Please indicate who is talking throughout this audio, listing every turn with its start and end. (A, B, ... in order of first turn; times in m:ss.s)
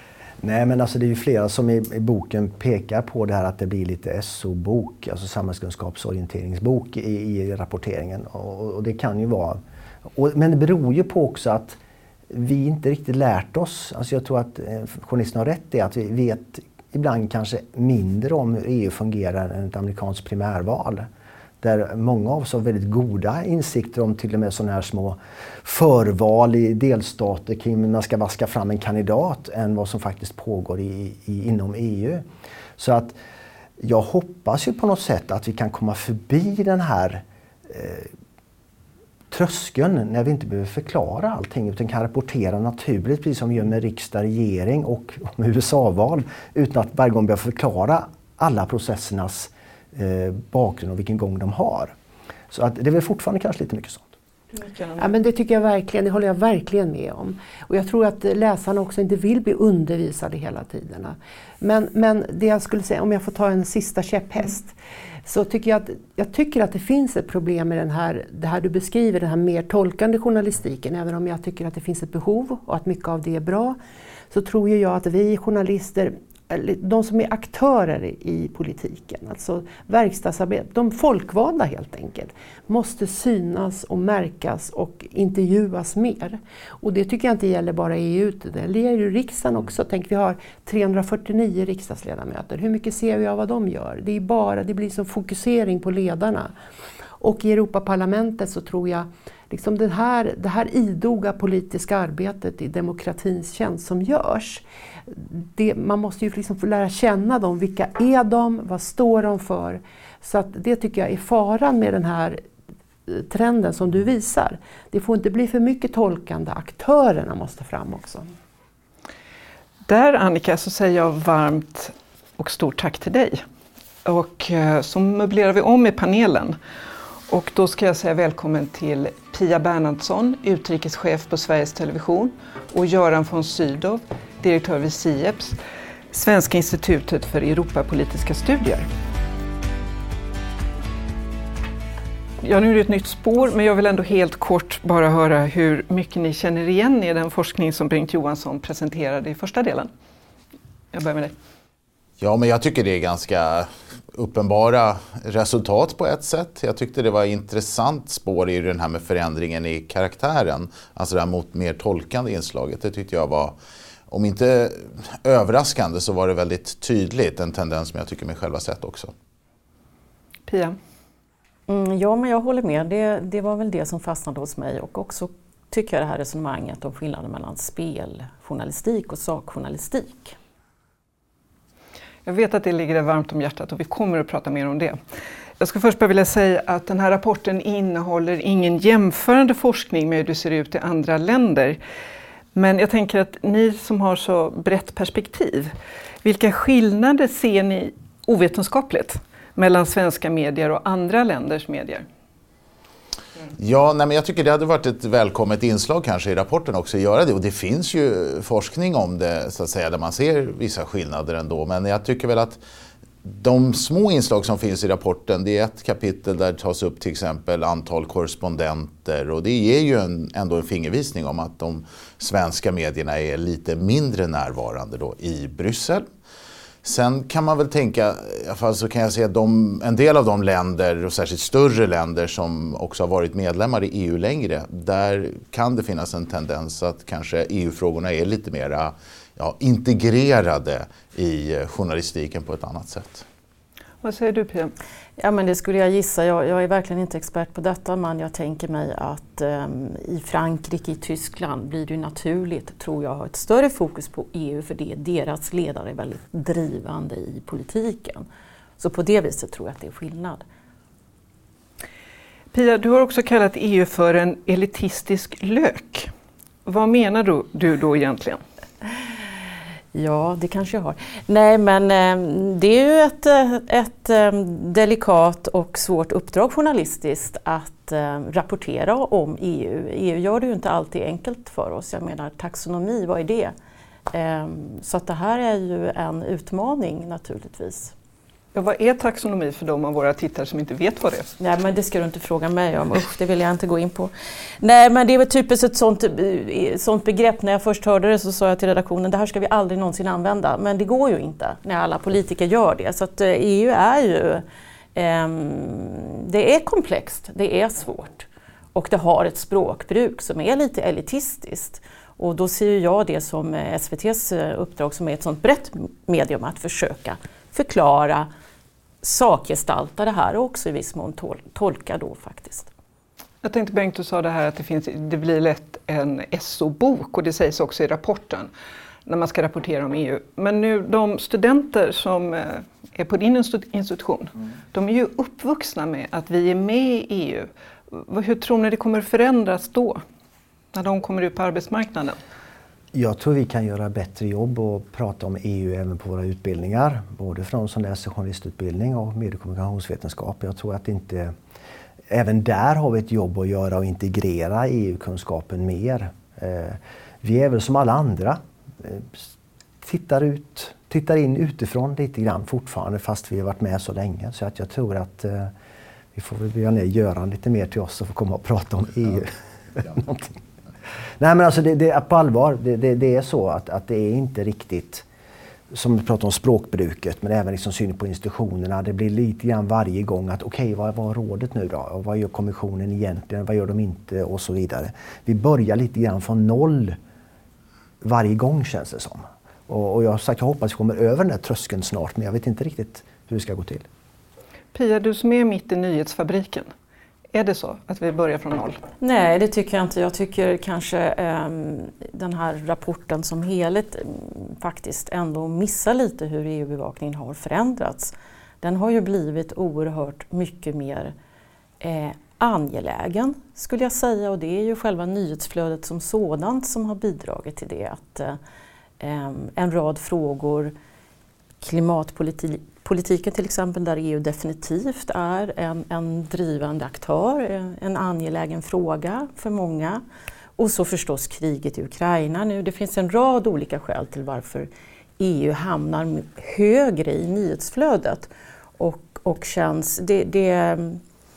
0:00.4-0:09.6 A
0:10.1-0:11.8 A
0:12.3-0:21.1 A
0:21.6-0:32.2 A
0:32.8-0:33.2 A
0:33.8-0:38.1 A
0:39.3-0:51.9 A
0:52.5-0:54.1 A
0:54.6-0:55.1 B
0:55.0-1:04.7 C
1:05.2-1:13.8 C
1:14.3-1:36.5 C
1:37.2-1:52.4 C
1:53.1-1:58.3 C
1:59.9-2:03.4 B
2:04.0-2:06.6 B
2:07.3-2:15.6 B
2:16.1-2:18.8 B
2:22.4-2:29.9 B
2:30.9-2:31.4 B
2:32.2-2:43.5 D
2:44.1-2:49.1 D
2:50.5-2:50.8 B
2:51.7-3:00.3 E
3:02.2-3:05.0 B
3:05.6-3:11.8 B
3:12.5-3:22.0 B
3:23.6-3:32.6 D
3:33.2-3:46.0 D
3:46.8-4:03.2 D
4:04.0-4:04.7 B
4:05.2-4:18.2 E
4:18.8-4:20.4 E
4:22.5-4:26.1 B
4:26.6-4:28.4 B
4:29.9-4:43.5 E
4:44.1-4:47.9 E
4:48.5-4:51.3 B
4:51.4-5:04.4 E
5:04.9-5:18.3 E
5:19.0-5:22.7 E
5:23.4-5:28.5 B
5:29.0-5:40.0 B
5:40.7-5:42.2 B
5:42.9-5:51.3 A
5:52.1-5:59.3 A
5:59.8-6:05.5 A
6:06.1-6:10.3 A
6:11.2-6:15.0 A
6:15.7-6:27.0 A
6:28.0-6:33.9 A
6:34.7-6:36.7 B
6:37.3-6:38.8 B
6:39.0-6:51.1 E
6:51.8-6:58.4 E
6:59.0-7:00.7 E
7:01.6-7:10.0 E
7:10.6-7:21.0 E